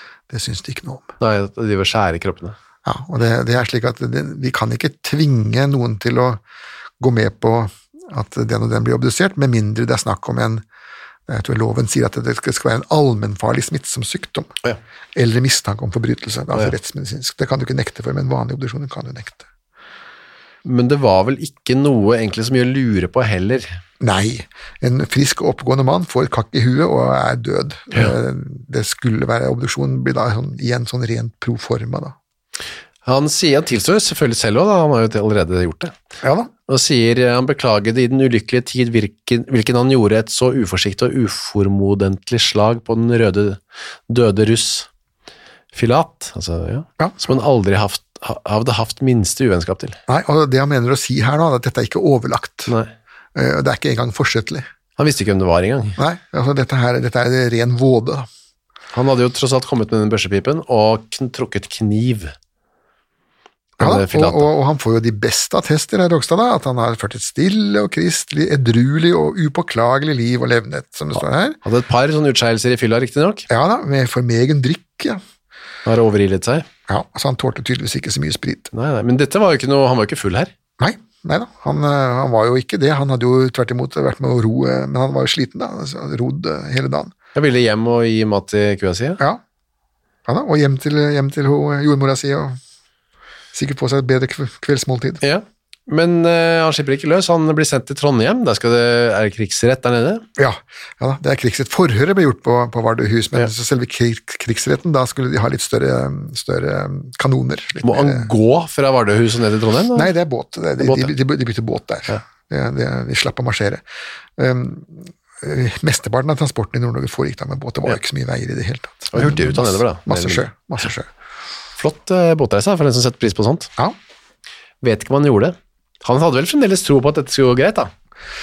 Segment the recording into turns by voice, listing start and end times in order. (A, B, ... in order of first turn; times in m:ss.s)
0:00.3-0:01.1 A
0:01.2-0:02.6 B
0:02.8-0:06.4 A
0:07.0-0:10.6 A
0:11.3-0:14.5 A
0:15.1-0:19.4 A
0:20.6-0:23.8 B
0:24.0-0:32.1 A
0:33.0-0:35.9 B
0:36.2-0:36.5 A
0:36.7-0:44.9 B
0:45.7-0:50.0 B
0:50.1-0:52.7 A
0:53.3-0:54.7 A
0:55.0-0:56.0 B
0:56.0-0:58.3 A
0:58.9-1:02.3 B
1:03.8-1:11.6 A
1:03.8-1:04.5 B
1:11.6-1:13.4 B
1:13.5-1:15.2 A
1:15.8-1:16.6 B
1:16.9-1:18.7 A
1:18.7-1:20.5 B
1:20.8-1:27.1 A
1:27.4-1:29.2 B
1:30.3-1:32.6 A
1:33.5-1:35.2 A
1:35.2-1:40.2 B
1:40.4-1:48.3 A
1:47.8-1:50.1 B
1:49.9-1:53.8 A
1:50.8-1:51.1 B
1:54.4-2:01.1 A
1:59.1-2:00.5 B
2:01.8-2:03.7 B
2:04.8-2:07.9 B